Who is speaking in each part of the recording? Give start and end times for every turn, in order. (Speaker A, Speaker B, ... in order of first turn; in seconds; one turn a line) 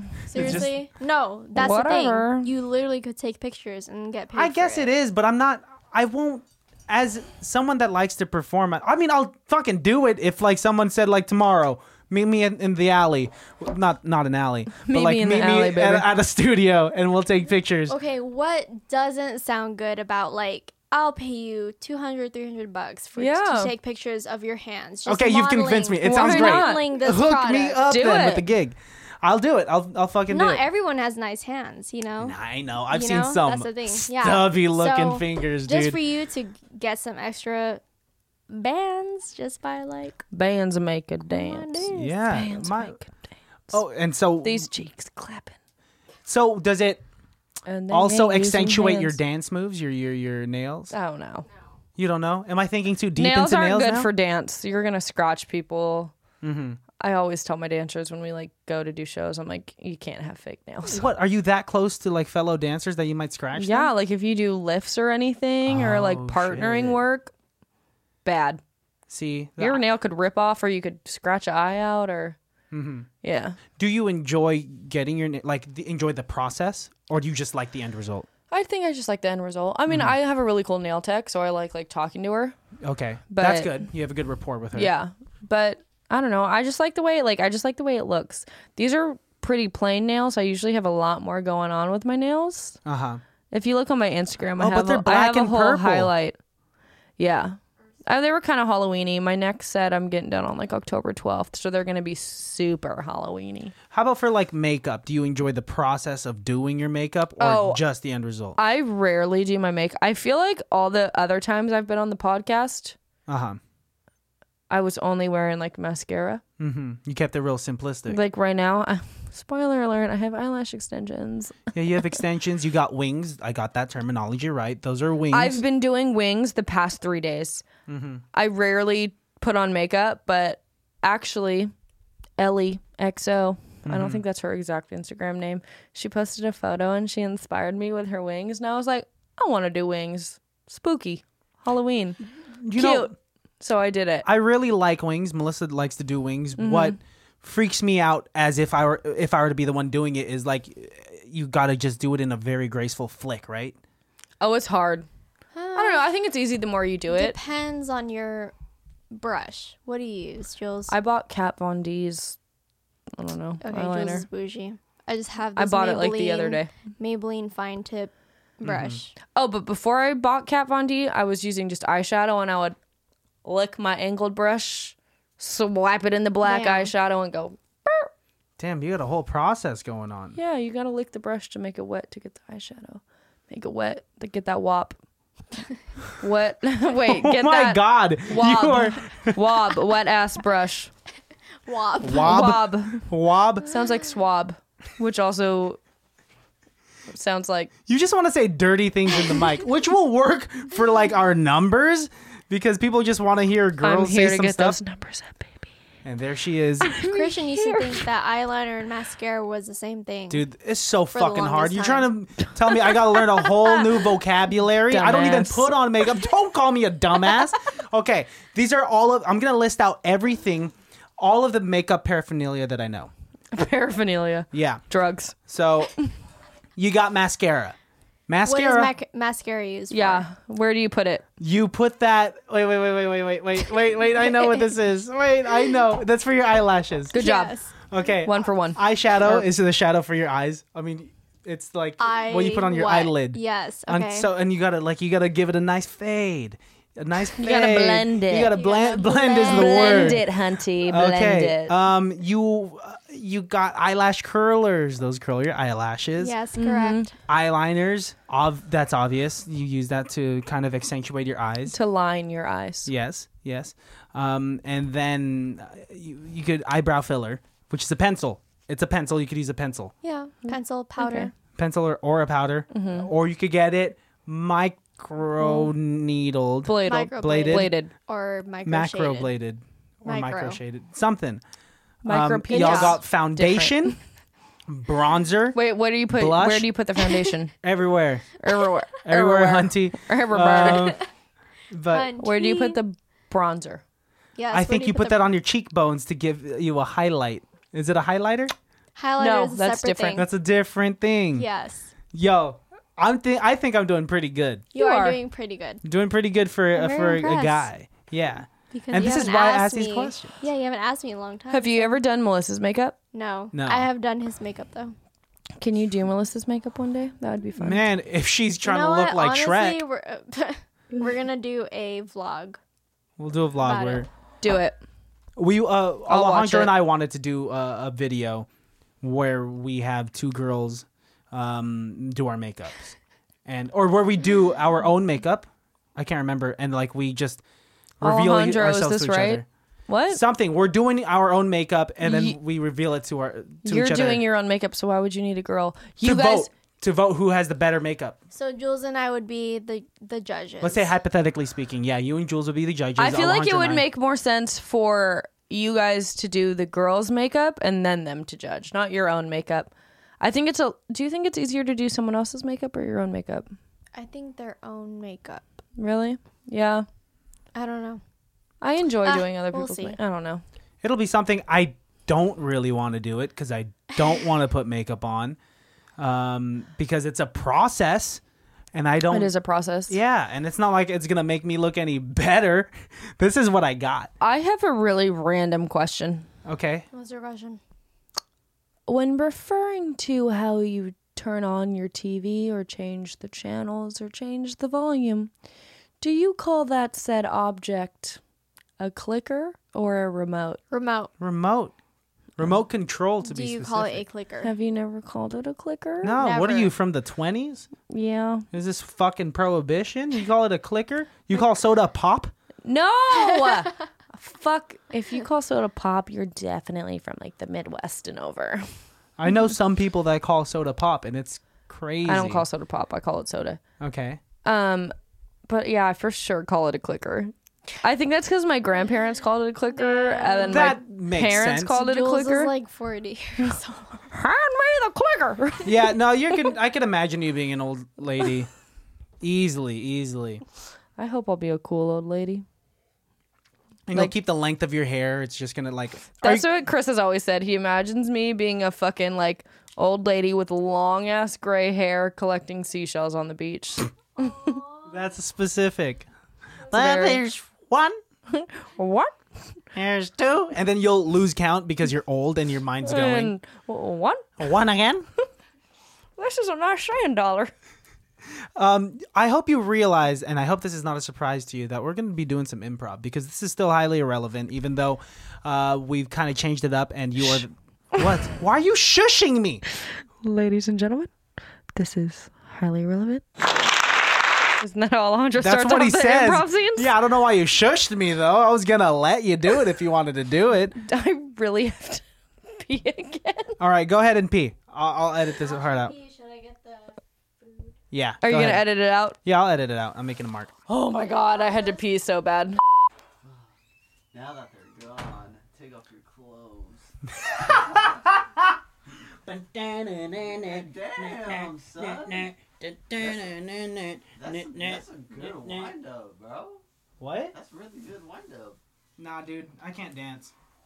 Speaker A: 0.3-0.7
Speaker B: 0.3-4.9
Speaker C: 0.4-0.7
Speaker C: 1.6-2.5
Speaker A: 4.3-18.0
Speaker C: 14.8-16.1
Speaker B: 17.9-27.8
Speaker C: 23.2-23.7
Speaker A: 25.1-30.6
Speaker C: 26.0-26.8
Speaker C: 27.9-28.5
Speaker B: 30.3-32.4
Speaker A: 32.2-36.0
Speaker B: 32.9-37.8
Speaker B: 38.5-40.2
Speaker C: 40.3-43.3
Speaker B: 41.3-42.0
Speaker A: 41.9-43.0
Speaker A: 43.7-44.7
Speaker C: 44.4-45.6
Speaker A: 46.3-47.0
Speaker C: 47.7-49.2
Speaker A: 47.9-50.9
Speaker C: 50.9-51.5
Speaker A: 52.0-54.1
Speaker C: 53.2-56.1
Speaker A: 56.4-56.8
Speaker C: 57.0-61.1
Speaker A: 60.9-63.9
Speaker C: 63.5-67.3
Speaker A: 65.7-67.0
Speaker C: 68.2-68.6
Speaker A: 69.1-69.8
Speaker C: 69.6-72.4
Speaker A: 72.7-73.1
Speaker C: 73.2-73.6
Speaker A: 73.8-78.3
Speaker C: 78.5-82.6
Speaker A: 79.9-80.2
Speaker A: 82.8-84.9
Speaker C: 83.3-83.9
Speaker C: 84.8-92.8
Speaker A: 92.8-93.2
Speaker C: 93.5-96.4
Speaker A: 94.6-96.1
Speaker C: 97.2-103.8
Speaker A: 103.9-108.6
Speaker C: 107.4-107.8
Speaker C: 108.6-113.0
Speaker A: 113.3-113.6
Speaker C: 114.7-116.4
Speaker A: 116.6-118.2
Speaker C: 118.1-121.7
Speaker A: 121.7-125.6
Speaker C: 125.3-127.6
Speaker A: 127.9-128.2
Speaker C: 128.3-131.7
Speaker C: 132.4-142.2
Speaker A: 133.8-134.2
Speaker A: 142.6-143.1
Speaker C: 142.7-144.3
Speaker A: 144.2-153.8
Speaker C: 146.6-147.0
Speaker C: 154.4-155.1
Speaker B: 155.5-156.1
Speaker C: 155.8-157.3
Speaker B: 157.1-158.5
Speaker B: 159.1-160.9
Speaker C: 160.9-162.4
Speaker C: 163.2-164.2
Speaker B: 163.6-169.1
Speaker C: 165.6-166.7
Speaker A: 168.6-169.0
Speaker C: 169.3-172.8
Speaker C: 173.4-178.1
Speaker B: 176.4-176.9
Speaker A: 178.6-180.4
Speaker C: 180.4-185.0
Speaker C: 186.2-190.9
Speaker A: 187.1-189.4
Speaker B: 191.7-192.5
Speaker A: 192.0-193.7
Speaker C: 192.1-193.1
Speaker C: 193.6-195.8
Speaker C: 197.1-197.7
Speaker A: 197.9-204.8
Speaker C: 203.8-205.7
Speaker A: 206.0-207.0
Speaker C: 206.8-208.1
Speaker B: 207.1-210.4
Speaker A: 210.3-223.1
Speaker B: 211.1-212.1
Speaker C: 212.7-214.0
Speaker C: 214.9-215.8
Speaker C: 223.5-225.4
Speaker A: 224.5-224.8
Speaker A: 225.5-225.9
Speaker A: 226.8-227.8
Speaker A: 228.3-228.9
Speaker B: 228.5-230.3
Speaker C: 229.9-231.2
Speaker A: 231.4-237.2
Speaker B: 234.3-234.7
Speaker C: 237.1-237.5
Speaker B: 237.1-237.7
Speaker A: 237.9-250.2
Speaker C: 238.2-239.5
Speaker B: 242.0-244.3
Speaker C: 247.4-248.6
Speaker B: 248.5-250.2
Speaker C: 249.4-251.7
Speaker A: 250.9-256.4
Speaker B: 256.2-257.1
Speaker C: 256.6-257.1
Speaker A: 257.3-261.8
Speaker C: 261.7-262.9
Speaker A: 262.9-269.9
Speaker B: 270.0-271.3
Speaker C: 270.4-271.3
Speaker A: 271.6-277.7
Speaker C: 272.7-273.1
Speaker C: 275.4-275.7
Speaker C: 276.6-277.9
Speaker B: 276.8-279.3
Speaker A: 278.6-281.4
Speaker B: 280.1-280.6
Speaker C: 282.1-284.0
Speaker A: 282.1-284.0
Speaker B: 282.5-283.0
Speaker A: 284.7-285.6
Speaker C: 285.6-287.5
Speaker A: 286.1-286.7
Speaker A: 287.6-288.4
Speaker C: 288.4-291.0
Speaker A: 289.0-291.0
Speaker A: 291.7-292.1
Speaker B: 291.9-292.8
Speaker C: 292.2-293.8
Speaker B: 294.4-295.3
Speaker A: 294.5-298.5
Speaker B: 299.0-300.3
Speaker C: 299.2-300.2
Speaker A: 300.1-301.5
Speaker B: 301.4-301.9
Speaker A: 302.1-304.7
Speaker B: 304.7-305.8
Speaker C: 304.8-305.2
Speaker A: 305.8-310.3
Speaker B: 306.8-307.7
Speaker B: 308.7-312.0
Speaker C: 311.5-313.0
Speaker B: 313.1-314.9
Speaker A: 313.5-313.9
Speaker C: 315.6-317.8
Speaker A: 317.6-319.8
Speaker B: 318.6-322.6
Speaker A: 323.2-324.1
Speaker B: 323.6-324.0
Speaker C: 324.4-324.8
Speaker A: 325.4-328.5
Speaker C: 326.1-326.8
Speaker A: 329.0-332.9
Speaker A: 333.5-337.4
Speaker A: 338.0-339.5
Speaker C: 338.0-340.2
Speaker A: 340.1-344.2
Speaker C: 342.0-342.4
Speaker C: 343.6-346.5
Speaker A: 346.0-348.2
Speaker B: 348.3-350.9
Speaker A: 350.6-353.9
Speaker C: 353.0-363.5
Speaker B: 363.9-365.5
Speaker C: 365.8-366.9
Speaker B: 367.6-368.0
Speaker C: 368.6-370.4
Speaker B: 369.1-370.0
Speaker A: 370.8-375.4
Speaker A: 376.0-378.2
Speaker A: 378.7-379.3
Speaker C: 379.1-380.0
Speaker A: 379.9-384.1
Speaker C: 384.2-386.3
Speaker A: 386.4-386.9
Speaker B: 386.9-387.6
Speaker C: 388.9-395.3
Speaker C: 396.0-398.2
Speaker C: 398.8-400.6
Speaker B: 400.7-401.1
Speaker A: 401.2-401.8
Speaker A: 402.4-404.1
Speaker B: 403.2-404.5
Speaker C: 404.4-406.2
Speaker A: 406.0-407.7
Speaker B: 406.2-406.7
Speaker C: 407.9-408.5
Speaker A: 408.5-412.3
Speaker C: 412.6-418.7
Speaker A: 419.2-422.4
Speaker C: 422.1-423.6
Speaker A: 423.8-424.2
Speaker C: 424.4-424.9
Speaker C: 425.5-432.5
Speaker B: 429.8-430.8
Speaker A: 430.4-431.8
Speaker B: 431.7-434.0
Speaker C: 434.1-436.0
Speaker A: 435.6-438.5
Speaker A: 439.2-440.4
Speaker C: 441.0-442.4
Speaker A: 443.9-446.5
Speaker C: 446.2-454.6
Speaker A: 454.9-456.1
Speaker A: 456.7-458.0
Speaker C: 456.7-457.2
Speaker C: 458.3-459.2
Speaker A: 459.7-463.3
Speaker C: 462.8-464.4
Speaker A: 464.4-465.1
Speaker C: 466.2-467.5
Speaker A: 468.6-479.6
Speaker C: 480.2-481.1
Speaker C: 481.7-483.2
Speaker C: 484.6-486.9
Speaker A: 485.4-490.8
Speaker C: 490.8-493.6
Speaker A: 493.6-496.0
Speaker B: 495.5-497.7
Speaker A: 497.9-498.7
Speaker C: 498.2-499.2
Speaker A: 499.2-500.5
Speaker C: 500.7-502.6
Speaker D: 503.2-503.5
Speaker D: 504.1-508.2
Speaker A: 507.2-508.5
Speaker A: 509.2-515.7
Speaker D: 510.2-512.3
Speaker D: 513.0-513.2
Speaker D: 514.2-516.6
Speaker A: 517.0-517.3
Speaker D: 517.3-518.6
Speaker A: 519.0-520.3